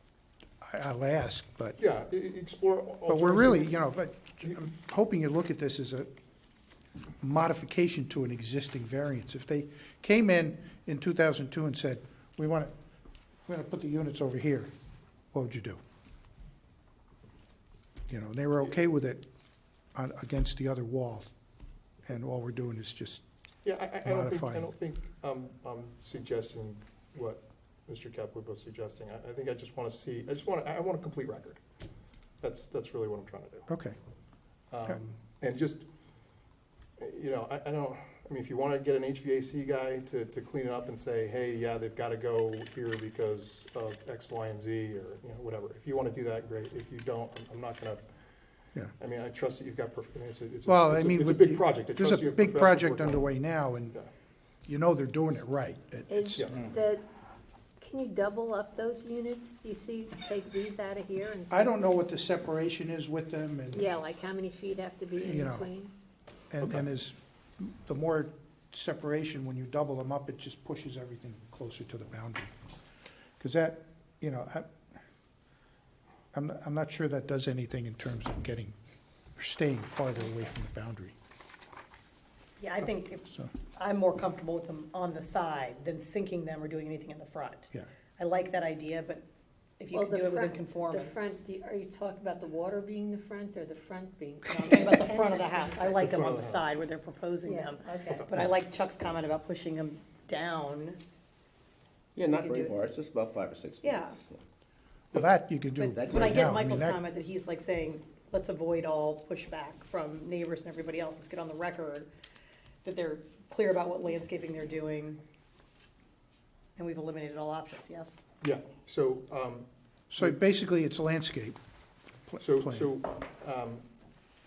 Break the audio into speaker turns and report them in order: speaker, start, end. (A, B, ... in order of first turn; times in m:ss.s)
0:00.6-0:01.8 A
0:01.8-0:03.8 B
0:03.1-0:06.1 A
0:07.2-0:12.7 A
0:13.5-0:14.7 A
0:15.3-0:15.8 A
0:18.1-0:19.2 A
0:20.0-0:21.3 A
0:22.1-0:23.2 A
0:23.6-0:31.6 B
0:24.0-0:24.7 A
0:32.4-0:33.7 B
0:33.7-0:34.0 A
0:34.7-0:35.8 B
0:37.0-0:48.0 B
0:49.0-0:53.3 B
0:50.7-0:54.0 A
0:54.7-0:56.5 A
0:56.1-0:57.0 C
0:57.8-1:01.8 C
1:01.5-1:03.9 A
1:03.7-1:05.9 C
1:05.2-1:05.7 A
1:06.5-1:12.5 A
1:13.4-1:14.7 A
1:16.3-1:18.8 A
1:19.4-1:21.2 A
1:22.6-1:29.2 D
1:29.8-1:31.2 D
1:29.9-1:36.0 C
1:34.5-1:41.0 D
1:36.0-1:36.7 B
1:37.4-1:38.2 C
1:42.2-1:44.4 E
1:42.4-1:42.7 D
1:43.8-1:44.1 D
1:45.1-1:47.0 A
1:45.8-1:52.1 D
1:45.9-1:46.6 E
1:52.8-1:55.2 D
1:56.8-1:58.2 D
1:58.4-2:00.3 B
2:00.1-2:01.6 A
2:02.3-2:02.9 A
2:02.4-2:03.8 B